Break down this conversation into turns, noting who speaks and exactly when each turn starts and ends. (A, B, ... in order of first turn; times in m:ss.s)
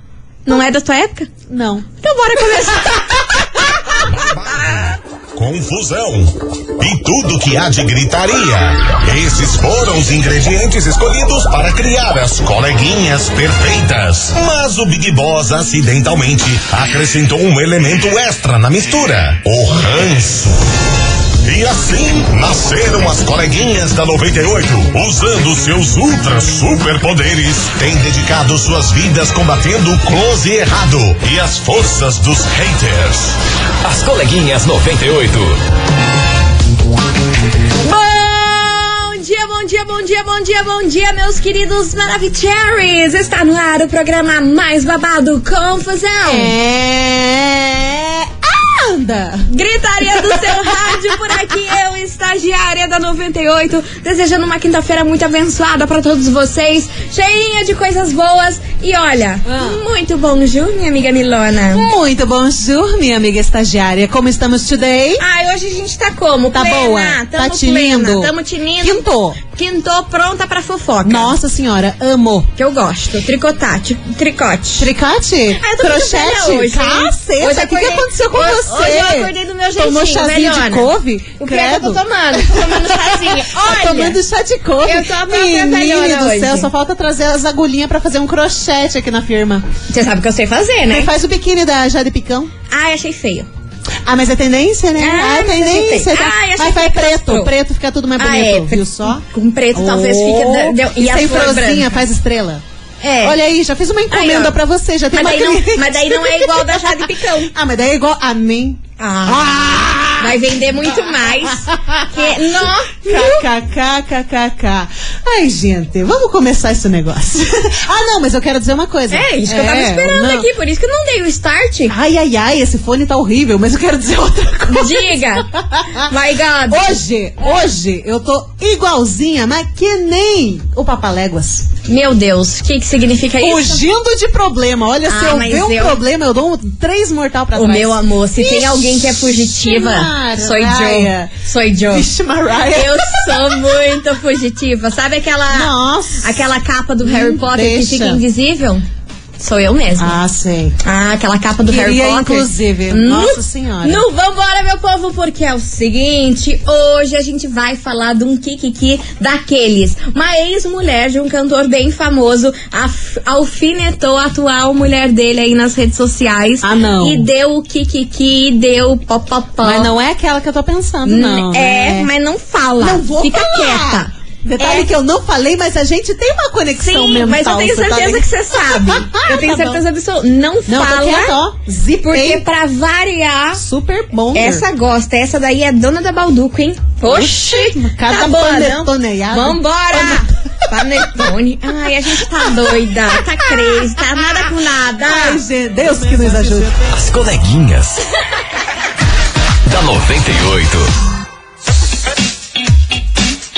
0:00.5-0:01.3 A
0:01.5-0:01.9 B
0:02.0-0:03.0 A
0:04.2-0:20.6 C
0:21.4-0:33.4 C
0:33.8-0:35.6 D
0:37.8-0:46.5 A
0:46.3-0:49.5 B
0:49.5-1:01.9 A
0:50.2-0:51.4 B
0:59.5-0:59.8 B
1:01.7-1:05.2 B
1:05.2-1:11.4 A
1:06.5-1:09.4 B
1:11.0-1:12.5 B
1:12.6-1:14.9 A
1:14.8-1:29.7 B
1:15.6-1:20.9 A
1:21.4-1:24.2 A
1:24.8-1:26.7 A
1:29.9-1:31.1 A
1:30.9-1:32.5 B
1:32.7-1:33.5 A
1:34.1-1:39.2 B
1:35.0-1:37.5 A
1:38.2-1:41.9 A
1:39.8-1:42.6 B
1:43.0-1:43.4 A
1:43.2-2:00.5 B
1:44.1-1:44.5 A
1:45.1-1:47.5 A
1:49.0-1:49.7 A
1:50.2-1:53.5 A
1:59.1-2:01.9 A
2:01.9-2:06.1 B
2:04.7-2:05.5 A
2:06.0-2:07.0 A
2:06.7-2:11.7 B
2:11.9-2:13.8 A
2:13.4-2:21.4 B
2:15.1-2:16.0 A
2:17.6-2:22.1 A
2:21.9-2:23.7 B
2:22.7-2:28.8 A
2:25.5-2:26.3 B
2:27.0-2:28.2 B
2:29.4-2:30.1 A
2:30.0-2:30.8 B
2:30.8-2:49.9 A
2:31.6-2:34.1 B
2:46.6-2:47.3 B
2:49.6-2:52.1 B
2:51.0-2:54.9 A
2:52.8-2:59.8 B
2:56.8-3:01.4 A
3:00.7-3:02.4 B
3:02.1-3:03.6 A
3:03.6-3:04.6 B
3:04.3-3:15.4 A
3:07.1-3:10.2 B
3:11.0-3:11.3 B
3:15.0-3:16.9 B
3:16.0-3:16.6 A
3:16.9-3:18.0 D
3:19.7-3:20.9 D